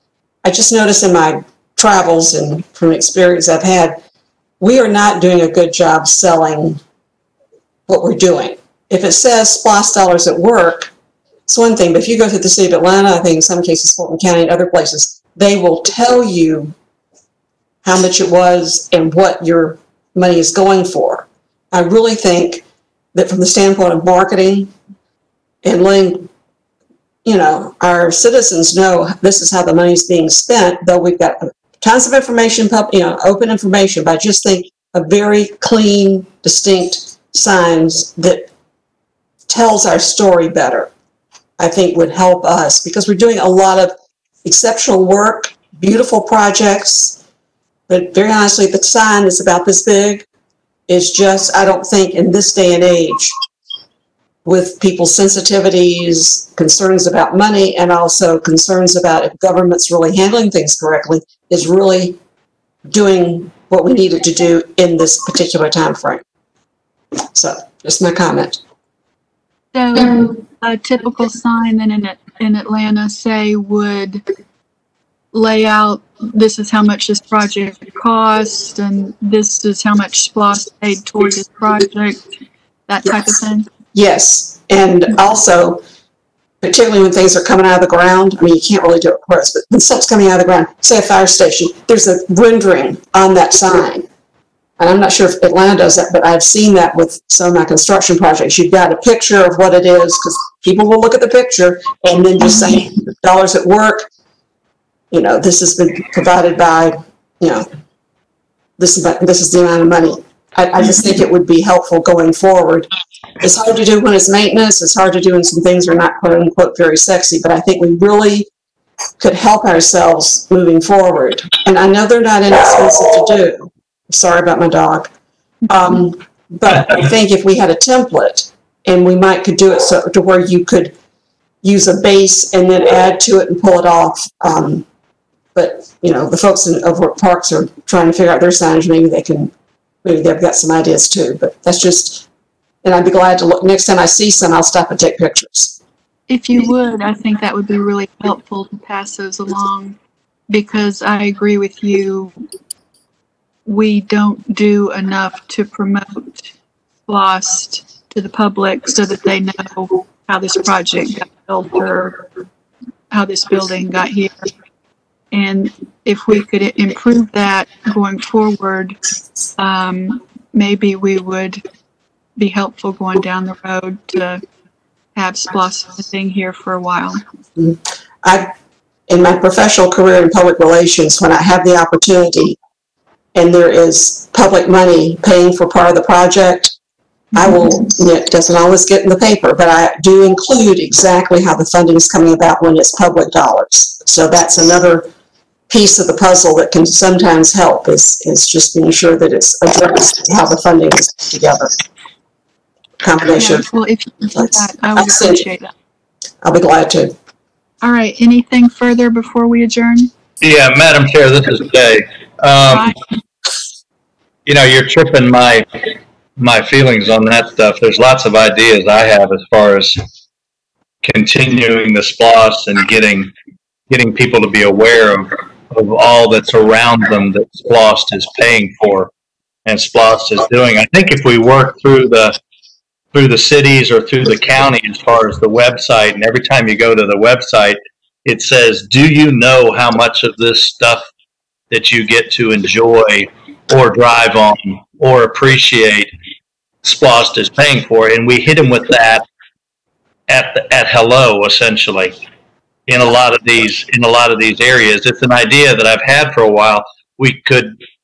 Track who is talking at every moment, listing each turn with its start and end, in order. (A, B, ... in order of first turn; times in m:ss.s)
0:00.4-0:04.0 A
0:04.6-0:06.8 A
0:07.9-0:10.9 A
0:11.5-0:16.7 A
0:17.8-0:22.6 A
0:23.1-0:24.7 A
0:25.6-0:26.3 A
0:27.2-0:38.5 A
0:39.5-0:40.9 A
0:41.6-0:43.9 A
0:44.4-0:47.2 A
0:47.9-0:50.2 A
0:50.9-0:53.3 A
0:54.4-1:02.2 A
1:02.9-1:06.2 A
1:07.3-1:08.6 A
1:09.7-1:14.2 B
1:15.3-1:22.2 B
1:22.9-1:23.7 B
1:23.9-1:25.8 A
1:26.6-1:34.0 A
1:34.8-1:44.1 A
1:45.1-1:47.6 A
1:48.8-1:52.9 A
1:53.4-1:58.5 A
1:59.2-2:05.1 A
2:05.7-2:10.9 A
2:11.6-2:14.8 A
2:15.5-2:19.5 A
2:20.0-2:22.2 A
2:22.8-2:25.8 A
2:26.3-2:30.0 B
2:30.5-2:32.4 B
2:33.6-2:36.5 B
2:37.1-2:42.3 B
2:43.1-2:44.5 B
2:45.3-2:49.0 B
2:49.6-2:51.6 B
2:52.4-2:54.4 B
2:55.1-2:57.2 B
2:57.6-2:58.5 A
2:59.1-3:02.6 A
3:03.3-3:06.7 A
3:07.3-3:15.1 A
3:15.7-3:21.7 A
3:23.0-3:23.6 A
3:23.3-3:25.7 B
3:24.3-3:25.5 A
3:26.4-3:27.1 A
3:27.8-3:30.1 B
3:30.4-3:32.9 C
3:32.7-3:33.0 B
3:34.4-3:35.6 C
3:36.4-3:40.0 C
3:41.0-3:43.3 C
3:43.9-3:49.1 C
3:49.6-3:52.4 C
3:53.1-4:01.1 C
4:01.7-4:06.1 C
4:06.8-4:09.2 C
4:10.3-4:12.2 C
4:12.9-4:17.8 C